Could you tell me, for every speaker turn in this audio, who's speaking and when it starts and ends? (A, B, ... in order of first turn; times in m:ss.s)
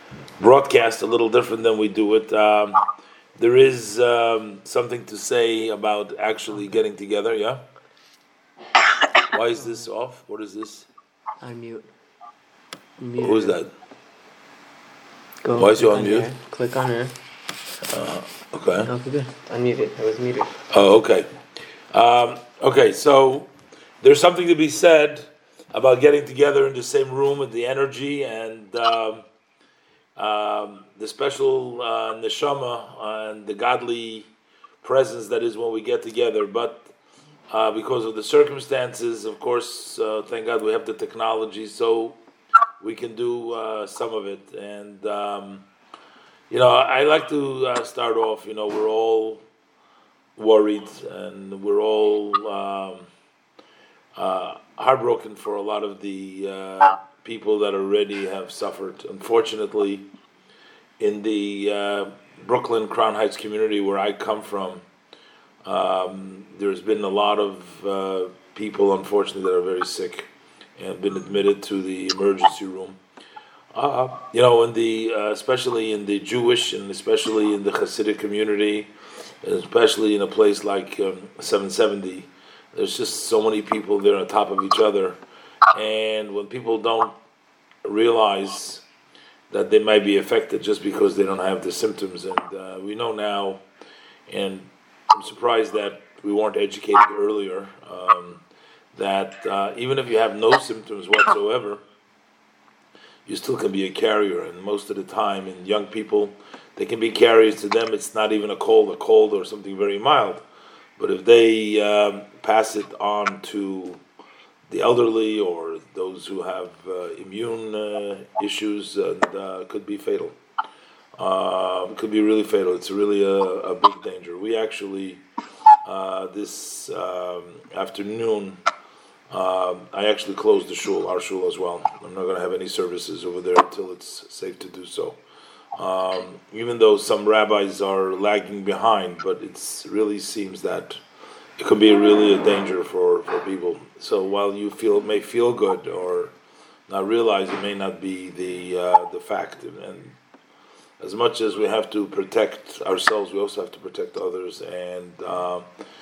0:00.4-0:02.8 A
0:03.4-0:07.6 A
0:09.3-0:10.9 A
0:09.6-0:09.9 B
0:11.4-0:11.8 B
0:13.0-0:13.6 B
0:13.2-0:13.7 A
0:15.4-0:17.1 B
0:15.6-0:16.3 A
0:17.9-0:18.9 A
0:18.8-0:20.6 B
0:20.7-0:21.3 A
0:21.9-0:23.5 A
0:24.0-0:29.2 A
0:30.2-0:34.3 A
0:34.8-0:36.9 A
0:37.5-0:42.2 A
0:42.8-0:45.6 A
0:46.5-0:49.4 A
0:50.4-0:53.1 A
0:54.2-1:00.1 A
1:01.0-1:04.8 A
1:05.6-1:13.0 A
1:13.7-1:18.9 A
1:19.4-1:25.2 A
1:25.7-1:27.2 A
1:27.8-1:28.8 A
1:29.5-1:33.6 A
1:34.3-1:38.4 A
1:39.0-1:41.8 A
1:43.3-1:50.4 A
1:51.0-1:54.0 A
1:54.7-2:00.4 A
2:01.2-2:05.2 A
2:05.8-2:08.6 A
2:09.3-2:15.2 A
2:15.8-2:21.0 A
2:21.6-2:26.3 A
2:26.9-2:30.2 A
2:31.0-2:35.7 A